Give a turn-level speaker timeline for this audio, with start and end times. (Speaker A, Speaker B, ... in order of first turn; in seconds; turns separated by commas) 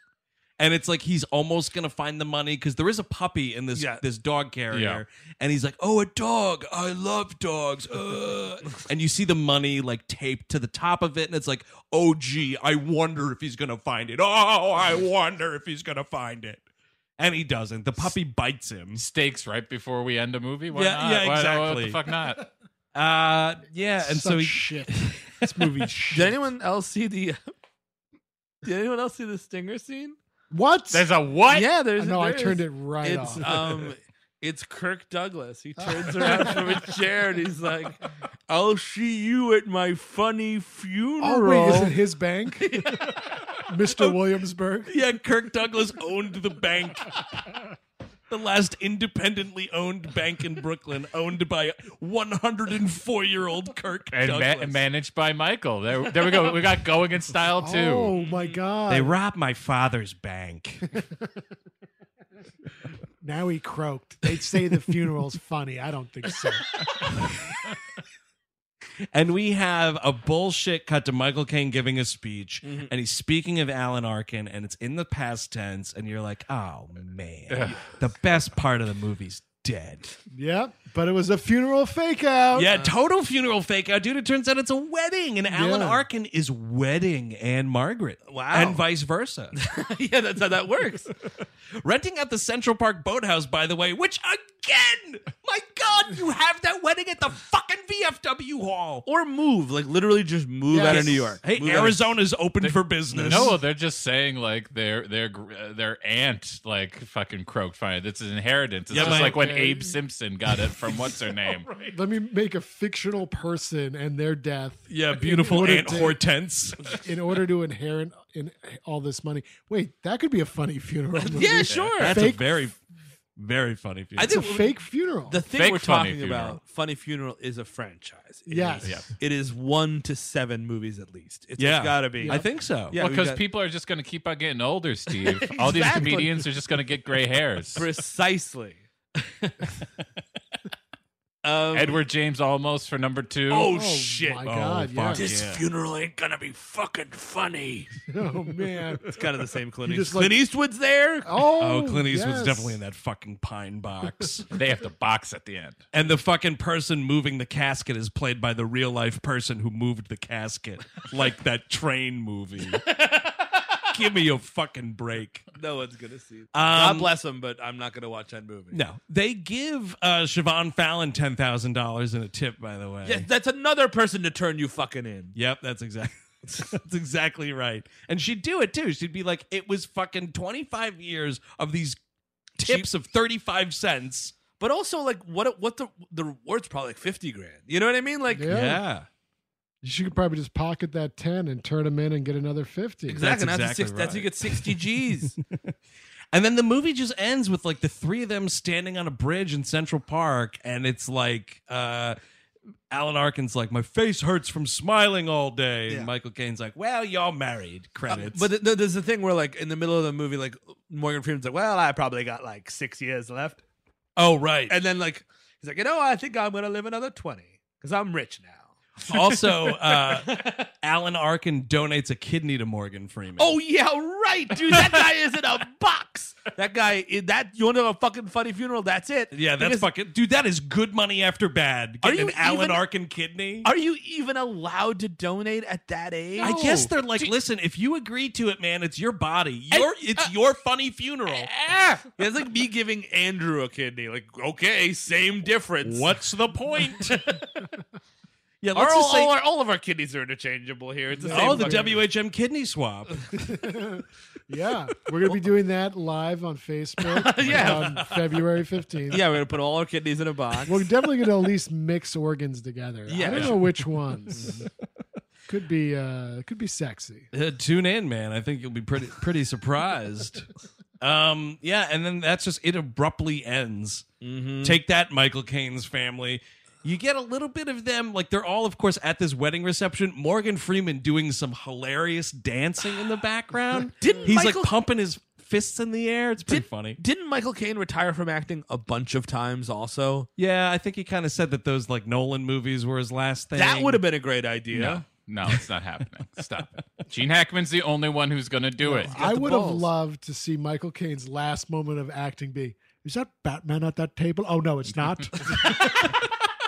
Speaker A: 0.6-16.6, Speaker B: 3.7-4.0, Speaker C: 4.7-5.0, Speaker A: 17.2-19.0, Speaker C: 18.9-22.5, Speaker A: 20.7-22.0, Speaker A: 22.9-26.3, Speaker D: 24.0-26.3, Speaker B: 26.1-27.4, Speaker B: 28.6-30.2, Speaker D: 30.5-31.1, Speaker C: 30.9-31.7, Speaker B: 31.5-42.0, Speaker D: 32.0-33.6, Speaker D: 35.9-36.5, Speaker D: 41.2-42.8, Speaker B: 42.6-43.1, Speaker D: 43.7-44.9, Speaker A: 44.9-47.2, Speaker A: 48.3-54.8, Speaker C: 54.1-58.2, Speaker D: 57.6-59.2, Speaker B: 58.2-58.6, Speaker A: 58.9-60.8, Speaker D: 63.2-67.1, Speaker A: 69.1-80.1, Speaker B: 72.6-72.9, Speaker C: 77.5-77.9, Speaker D: 80.3-82.7, Speaker A: 82.5-89.5, Speaker B: 82.7-82.9, Speaker D: 85.5-86.0, Speaker B: 88.3-88.8, Speaker B: 89.6-91.1, Speaker A: 91.8-99.1, Speaker B: 99.0-102.2, Speaker D: 100.7-101.4, Speaker A: 100.8-103.6, Speaker C: 102.6-111.7, Speaker B: 103.2-103.5, Speaker A: 108.9-109.5, Speaker D: 108.9-110.0, Speaker A: 111.6-112.0, Speaker D: 111.9-116.2, Speaker A: 114.9-117.0, Speaker D: 116.9-122.5, Speaker B: 121.2-122.2, Speaker A: 122.0-122.8, Speaker A: 123.4-124.4, Speaker B: 124.2-124.8, Speaker D: 124.3-125.4, Speaker B: 125.3-133.4, Speaker C: 125.5-126.6, Speaker D: 128.5-129.0, Speaker C: 128.8-129.1, Speaker A: 131.6-133.0, Speaker D: 132.2-132.5, Speaker C: 132.9-137.9, Speaker B: 135.2-136.5, Speaker B: 137.8-138.8, Speaker B: 141.4-142.0, Speaker C: 141.7-143.7, Speaker B: 143.5-144.4, Speaker D: 143.7-145.2, Speaker A: 144.4-145.6, Speaker B: 145.2-147.9, Speaker D: 148.1-149.1, Speaker B: 149.0-151.5, Speaker D: 149.9-150.3, Speaker D: 151.2-152.8, Speaker A: 151.6-154.5, Speaker C: 154.5-155.8, Speaker A: 155.9-162.8, Speaker B: 162.7-163.5, Speaker A: 163.9-165.5, Speaker B: 165.5-168.8, Speaker A: 166.5-167.1, Speaker A: 168.7-173.3, Speaker B: 173.1-175.4, Speaker A: 175.3-182.0, Speaker A: 182.6-184.4, Speaker B: 182.6-182.9, Speaker B: 184.5-188.5, Speaker D: 188.3-188.8, Speaker A: 188.5-189.1, Speaker D: 189.8-193.2, Speaker B: 193.1-195.4, Speaker A: 193.2-194.7, Speaker A: 196.3-202.2, Speaker A: 202.9-208.5, Speaker B: 208.1-213.6, Speaker A: 214.2-214.8, Speaker B: 214.7-220.7, Speaker A: 219.0-223.6, Speaker B: 223.4-229.9, Speaker A: 229.3-233.7, Speaker B: 232.0-232.8, Speaker B: 233.6-236.9, Speaker A: 236.4-242.1, Speaker C: 236.4-237.3, Speaker B: 239.7-240.3, Speaker B: 242.2-246.2, Speaker A: 245.8-247.2, Speaker B: 246.9-247.7, Speaker A: 248.6-249.4, Speaker B: 248.7-252.1, Speaker D: 251.2-252.0, Speaker A: 251.3-253.2, Speaker D: 253.5-259.2, Speaker B: 257.1-258.2, Speaker A: 257.5-257.9, Speaker B: 259.1-260.8, Speaker D: 260.7-264.6, Speaker B: 263.1-263.6, Speaker A: 263.1-264.1, Speaker D: 265.5-267.3, Speaker A: 267.3-270.5, Speaker A: 271.0-274.1, Speaker B: 274.2-274.8, Speaker A: 274.6-287.0, Speaker B: 284.0-284.7, Speaker B: 286.5-290.3, Speaker A: 290.4-294.0, Speaker B: 293.5-295.1, Speaker C: 294.7-299.2, Speaker D: 298.8-306.0, Speaker B: 299.1-299.9